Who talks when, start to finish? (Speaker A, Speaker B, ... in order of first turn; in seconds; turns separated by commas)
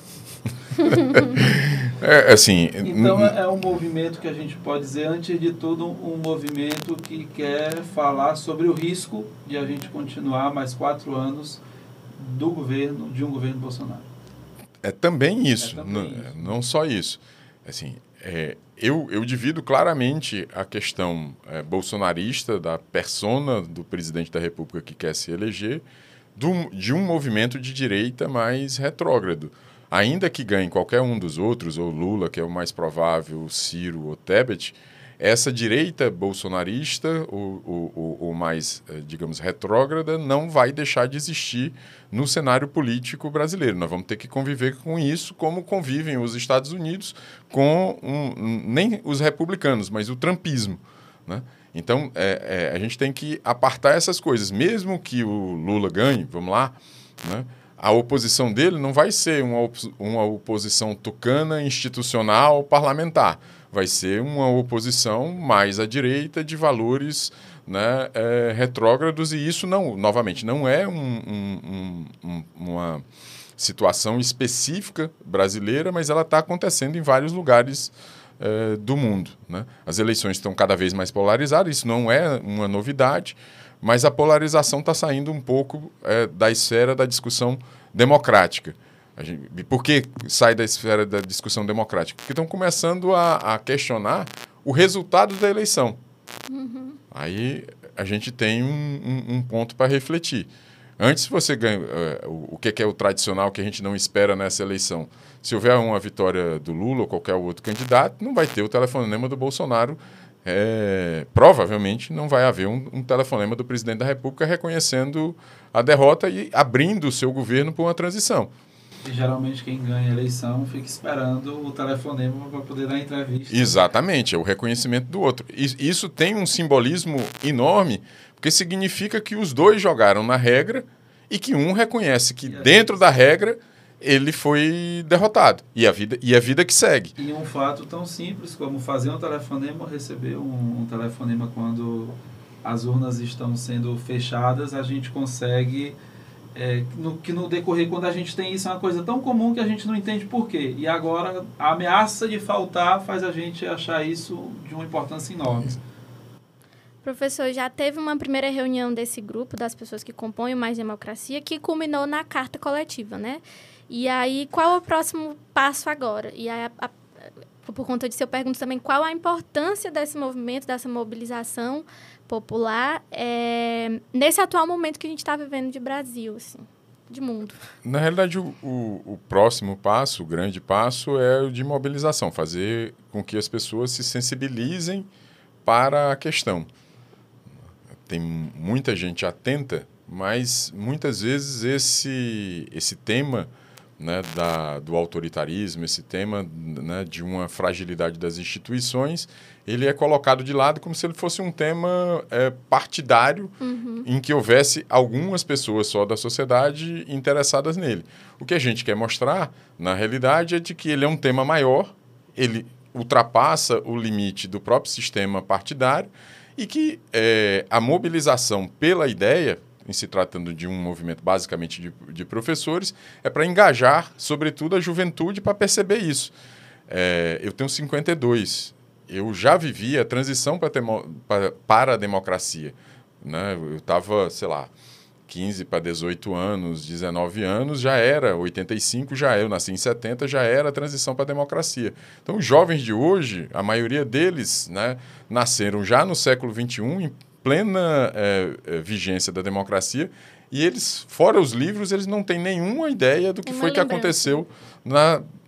Speaker A: 0.5-3.3, Speaker B: 2.8-11.6, Speaker B: 12.2-14.1, Speaker A: 14.8-25.8, Speaker B: 15.6-16.6, Speaker A: 26.4-73.0, Speaker A: 73.6-96.0, Speaker C: 96.5-97.0, Speaker A: 97.1-118.5, Speaker B: 119.0-123.8, Speaker A: 123.5-137.1, Speaker B: 132.4-133.0, Speaker B: 137.2-146.0, Speaker B: 146.5-155.8, Speaker C: 157.0-166.9, Speaker C: 167.6-177.6, Speaker A: 177.8-185.1, Speaker A: 185.6-186.7, Speaker A: 188.1-226.3, Speaker C: 203.6-204.1, Speaker A: 226.9-234.7, Speaker A: 235.3-255.2, Speaker C: 253.4-254.4